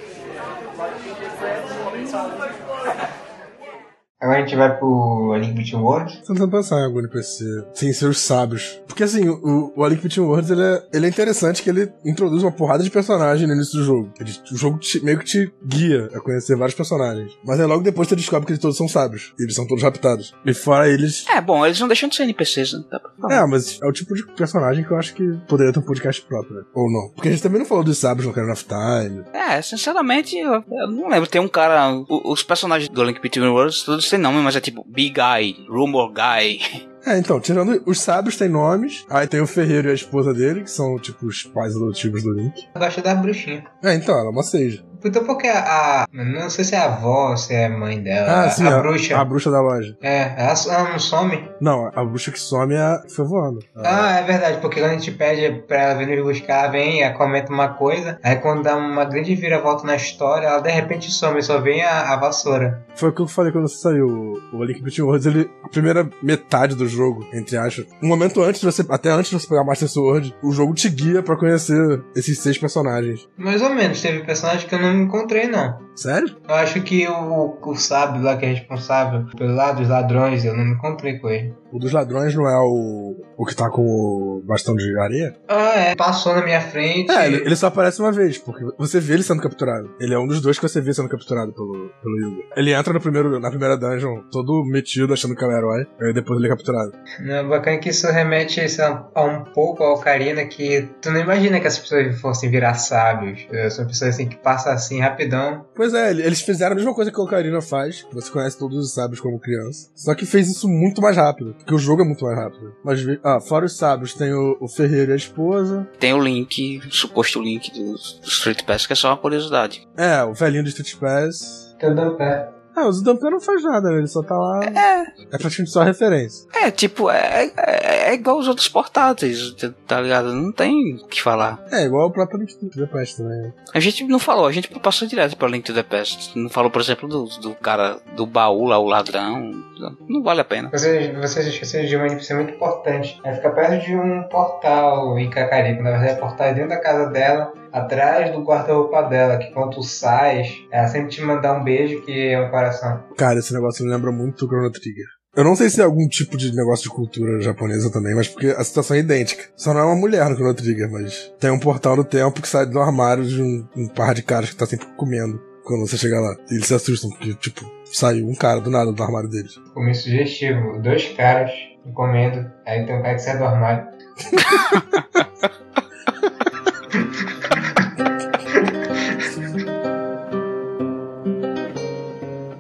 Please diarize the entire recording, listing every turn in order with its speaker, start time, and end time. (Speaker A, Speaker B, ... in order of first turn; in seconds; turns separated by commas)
Speaker A: 4.2-6.2, Speaker B: 6.2-21.3, Speaker C: 21.3-23.4, Speaker B: 23.3-29.3, Speaker C: 29.3-36.8, Speaker B: 37.0-42.6, Speaker A: 42.8-43.7, Speaker B: 43.8-44.8, Speaker A: 45.0-49.3, Speaker B: 48.3-50.0, Speaker A: 50.0-51.6, Speaker B: 51.6-54.1, Speaker A: 53.8-62.9, Speaker B: 63.0-73.2, Speaker A: 73.4-75.9, Speaker B: 76.0-76.4, Speaker A: 76.5-81.6, Speaker B: 81.7-85.3, Speaker A: 85.5-87.5, Speaker B: 87.1-96.9, Speaker A: 97.2-105.7, Speaker B: 105.8-115.9, Speaker C: 116.0-119.8, Speaker B: 120.0-121.7, Speaker A: 121.8-122.5, Speaker B: 122.7-126.4, Speaker C: 124.6-125.1, Speaker C: 126.5-131.6, Speaker B: 131.7-133.6, Speaker C: 133.7-140.7, Speaker A: 140.7-153.1, Speaker B: 153.2-169.6, Speaker A: 169.7-173.9, Speaker C: 174.4-175.3, Speaker A: 178.6-179.2